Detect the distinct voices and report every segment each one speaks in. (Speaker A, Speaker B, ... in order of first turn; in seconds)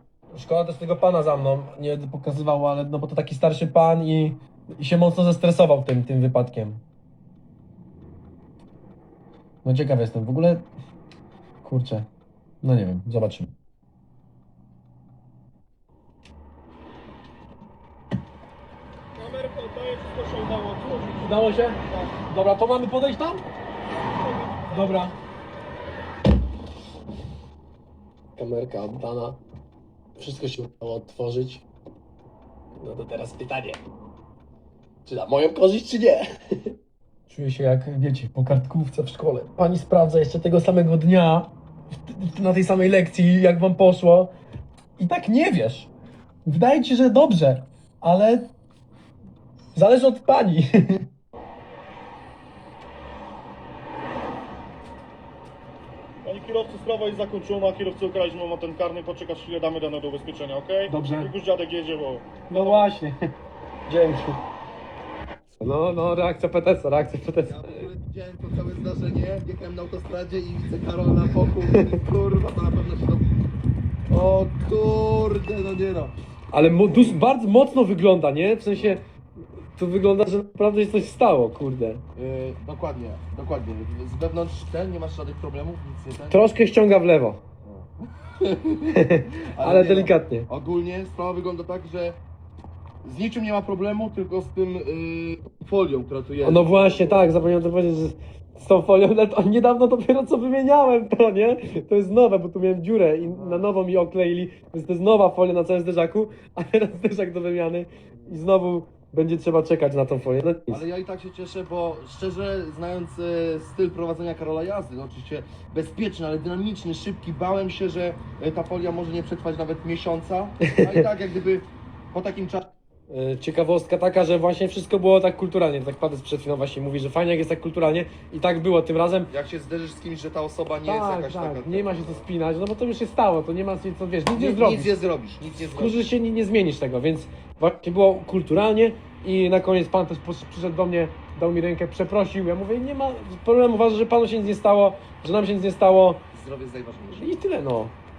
Speaker A: 0.3-6.8, 9.6-10.7, 11.6-12.1, 12.6-13.5, 21.2-23.4, 24.6-25.1, 28.4-29.4, 30.1-31.6, 32.8-33.8, 35.0-36.7, 37.3-44.3, 45.0-45.9, 46.4-48.5, 49.7-51.0, 60.9-61.3, 62.5-63.2, 63.9-64.4, 65.6-67.6, 76.5-79.0, 79.7-82.0, 86.3-87.4, 88.9-90.5, 96.4-110.8, 123.1-129.3, 130.8-135.0, 135.7-146.2, 147.1-147.9
Speaker B: 19.2-22.0, 24.2-25.1, 56.2-62.8
Speaker C: 67.4-73.3, 74.1-76.1, 82.2-86.5, 88.4-92.2, 93.0-97.2, 103.2-103.7, 110.7-122.7, 129.3-132.2, 134.3-136.0, 146.3-147.3